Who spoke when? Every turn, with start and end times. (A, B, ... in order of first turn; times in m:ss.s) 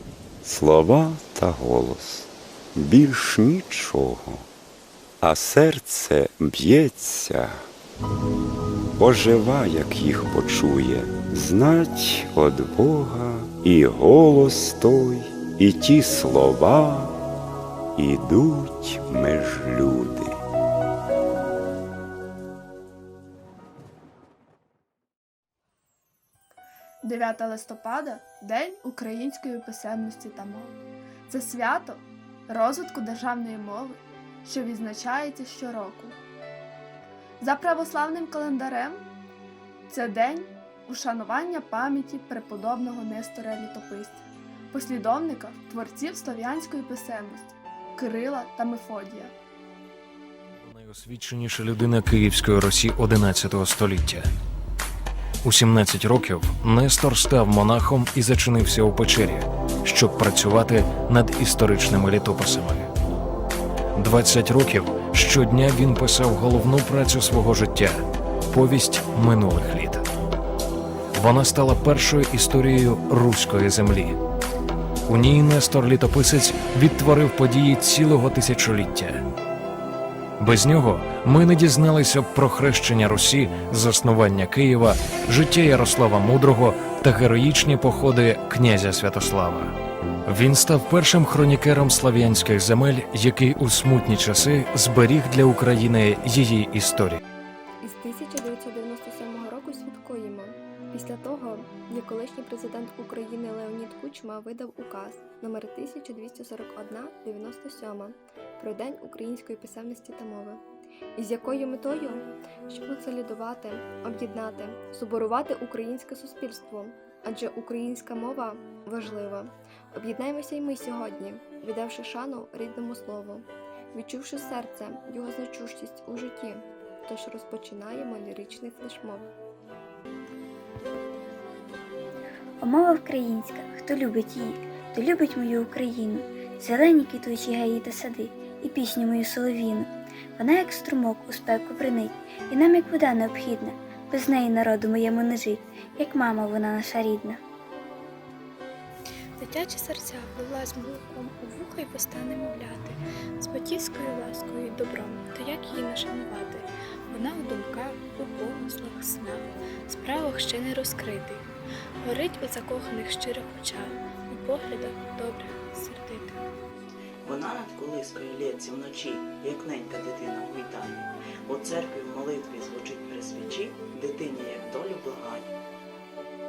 0:00.4-0:04.4 A
0:05.2-0:07.6 A
0:09.0-0:17.1 A
0:18.0-0:20.4 A
0:27.0-0:30.8 B
0:31.3-0:36.2 B
0:37.4-0:39.0 B
0:39.9-0:49.4 B
0:50.6-0:54.3 C
0:55.4-1:02.9 C
1:04.0-1:08.0 C
1:08.5-1:10.0 C
1:11.2-1:14.2 C
1:15.1-1:19.2 C
1:20.4-1:29.7 C
1:30.3-1:37.2 C
1:37.8-1:50.6 D
1:51.2-2:09.3 D
2:12.6-2:27.4 E
2:29.4-2:41.5 F
2:42.0-2:46.5 F
2:47.3-2:55.5 G